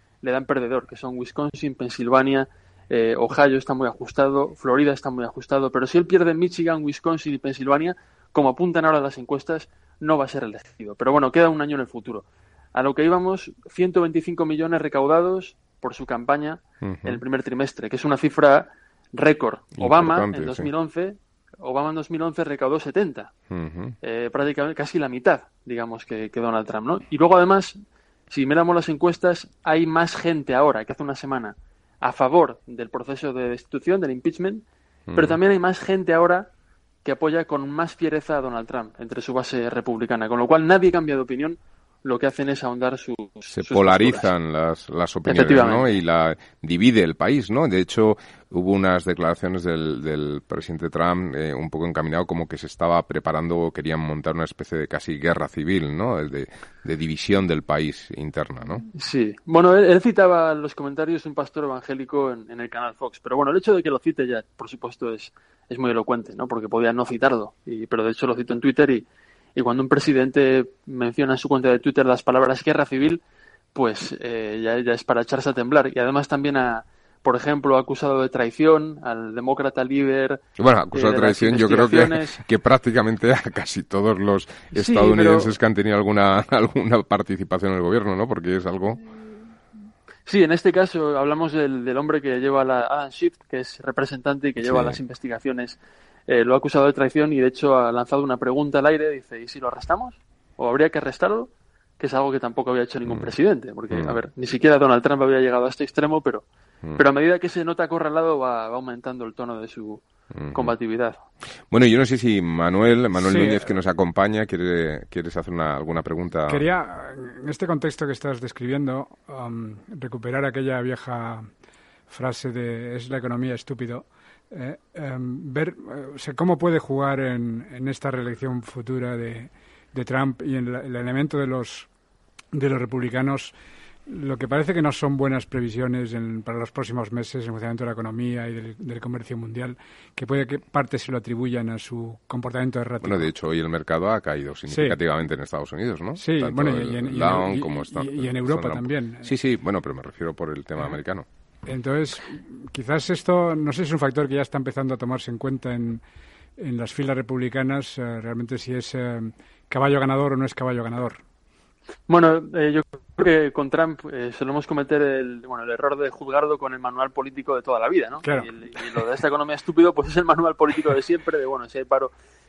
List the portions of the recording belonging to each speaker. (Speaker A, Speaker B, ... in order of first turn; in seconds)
Speaker A: 0.2-23.3, 24.0-27.8, 28.3-36.5, 37.0-44.3, 45.3-46.0, 59.0-73.2, 73.7-80.4, 80.9-82.4, 84.7-85.5, 90.2-106.4, 107.0-110.0, 110.5-111.2, 162.1-172.1
Speaker B: 16.8-17.2, 19.8-20.7, 23.5-23.9, 35.1-35.4, 43.5-58.8, 80.6-89.0, 94.6-95.0, 103.0-103.3, 103.9-104.2, 110.3-110.7, 111.7-116.6, 143.0-151.2
Speaker C: 113.2-113.7, 116.5-121.5, 122.1-131.9, 132.5-133.5, 134.1-143.3, 144.7-144.9, 146.2-149.3, 151.7-156.0, 156.6-161.2